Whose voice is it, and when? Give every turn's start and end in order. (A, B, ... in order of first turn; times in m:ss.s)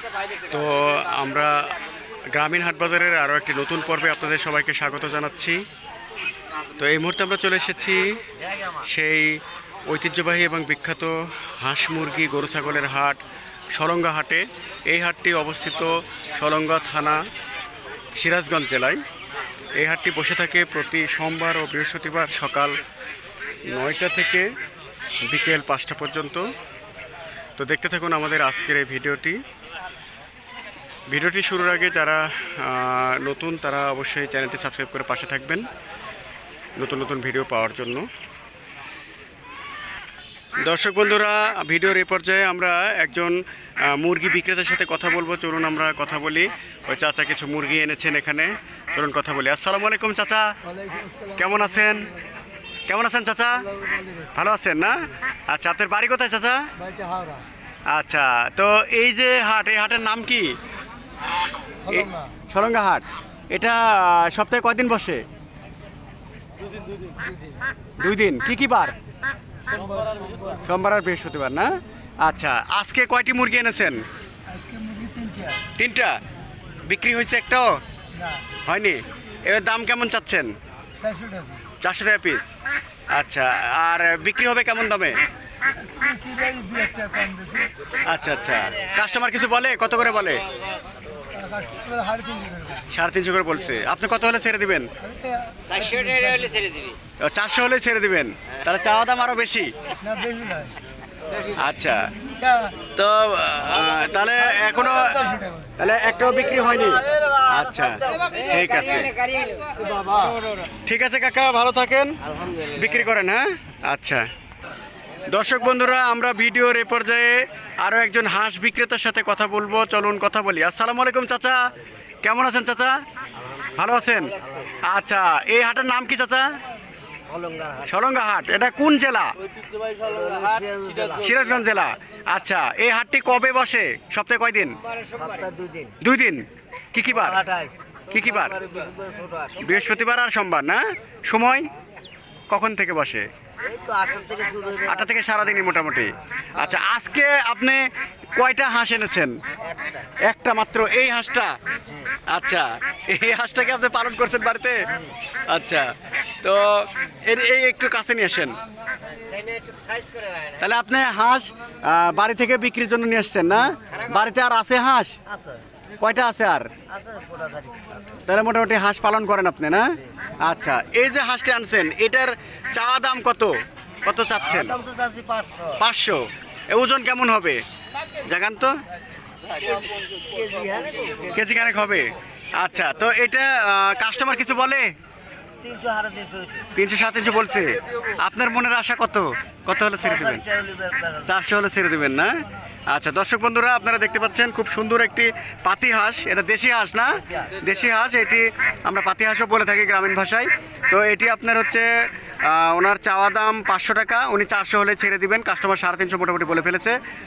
0:00.5-0:01.7 A
0:02.3-0:05.6 A
0:06.8-0:08.2 A
0:08.8-0:13.2 A
0:13.7-0:17.2 A
0:18.2-0:19.0 A
0:19.8-0:22.8 A
0:23.7-0:24.5 A
0:25.3-0:26.5 A
0:27.6-0:29.4 A
0:31.1-0:35.7 A
0:36.8-0:38.1 A
0:40.6-0:50.6 A
0:50.8-0:51.3 B
0:51.3-0:52.1 A
0:52.9-0:53.7 A
0:53.9-0:54.2 B
0:54.3-0:56.7 A
0:56.8-0:57.4 B
0:57.9-1:00.6 A
1:01.9-1:05.2 A
1:08.0-1:09.0 A
1:10.6-1:14.0 A
1:14.6-1:15.6 B
1:15.8-1:16.2 A
1:16.9-1:17.8 A
1:18.6-1:20.5 A
1:21.0-1:21.6 B
1:21.8-1:22.5 A
1:23.1-1:25.2 A
1:25.8-1:27.7 B
1:28.1-1:30.4 A
1:31.4-1:32.8 B
1:32.9-1:34.9 A
1:35.2-1:36.5 B
1:35.7-1:36.9 C
1:37.2-1:39.7 A
1:40.0-1:40.7 B
1:41.6-1:42.1 A
1:42.9-1:45.2 A
1:45.8-1:49.1 A
1:50.9-1:54.3 A
1:55.3-2:01.7 A
2:02.2-2:03.0 A
2:03.8-2:04.3 A
2:04.9-2:06.5 A
2:07.3-2:07.9 C
2:07.9-2:09.3 A
2:09.9-2:11.2 C
2:11.2-2:14.8 A
2:15.0-2:16.0 C
2:16.0-2:17.4 A
2:17.1-2:19.7 C
2:18.1-2:18.6 A
2:19.6-2:21.7 A
2:22.5-2:23.2 A
2:23.6-2:25.3 C
2:24.9-2:27.8 A
2:28.4-2:29.4 A
2:29.7-2:30.0 C
2:30.2-2:31.5 A
2:32.3-2:34.9 A
2:35.5-2:38.6 A
2:39.3-2:40.5 C
2:40.6-2:45.2 A
2:45.3-2:45.6 C
2:46.0-2:46.7 A
2:46.9-2:48.2 C
2:48.3-2:49.9 A
2:50.4-2:54.8 A
2:54.6-2:55.8 C
2:55.8-2:57.6 A
2:58.2-2:58.7 A
2:59.6-3:01.4 C
3:01.3-3:04.9 A
3:05.6-3:06.7 C
3:06.8-3:10.4 A
3:10.0-3:11.3 C
3:11.2-3:21.9 A
3:22.4-3:27.0 A